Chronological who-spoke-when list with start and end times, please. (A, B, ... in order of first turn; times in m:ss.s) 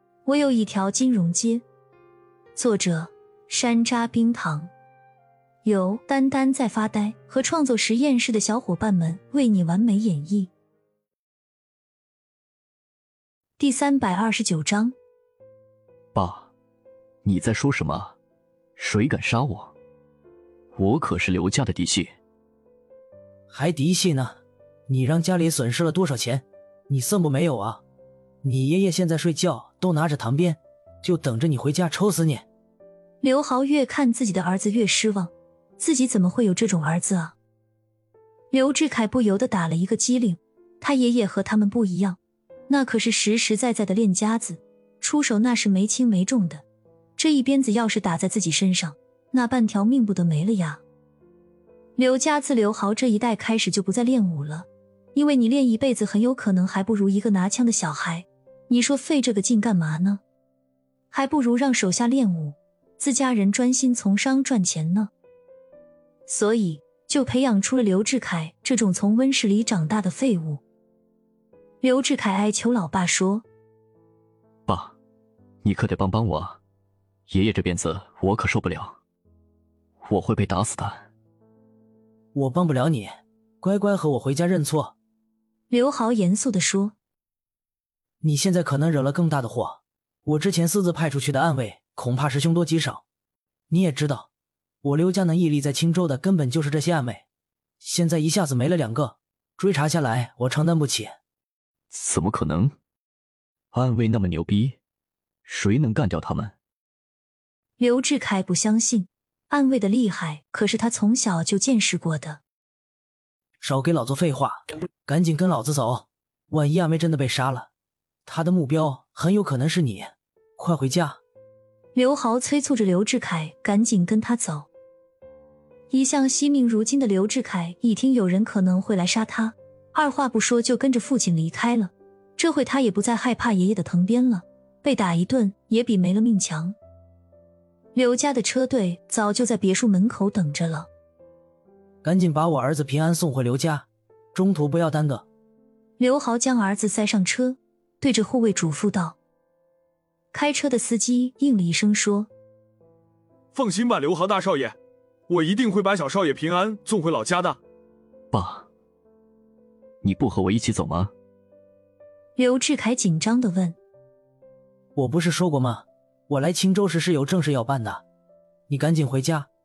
0:00.2-0:01.6 A
0:02.6-0:04.7 A
0:05.6-0:10.5 A
0:13.6-0:15.0 A
0:16.1-0:16.5 B
0:17.2-0:18.1 B
0:18.8-0:19.7 B
0:20.8-0:22.1 B
0:23.5-0:24.4 C
0:24.9-0:27.8 C
0:28.4-0:32.4 C
0:33.2-0:37.3 A
0:38.5-0:42.2 A
0:42.7-0:46.6 A
0:47.2-0:50.8 A
0:52.0-1:00.2 A
1:01.1-1:05.1 A
1:06.3-1:10.6 A
1:11.8-1:13.4 A
1:14.7-1:14.9 B
1:15.6-1:16.6 B
1:17.3-1:19.0 B
1:20.0-1:21.0 B
1:22.3-1:24.9 C
1:25.7-1:26.9 A
1:28.2-1:33.0 C
1:33.7-1:34.3 C
1:34.8-1:37.2 C
1:37.8-1:41.2 C
1:41.9-1:42.7 B
1:43.7-1:44.8 B
1:45.4-1:46.5 B
1:47.8-1:52.4 A
1:53.6-1:57.7 C
1:58.2-2:01.2 C
2:01.9-2:04.7 A
2:05.9-2:16.8 A
2:17.9-2:20.9 A
2:22.0-2:25.2 C
2:26.0-2:29.2 A
2:30.3-2:32.3 A
2:33.5-2:34.8 D
2:35.3-2:37.6 D
2:38.3-2:38.7 B
2:40.0-2:41.1 B
2:42.4-2:43.8 A
2:45.0-2:48.0 C
2:48.7-2:49.5 C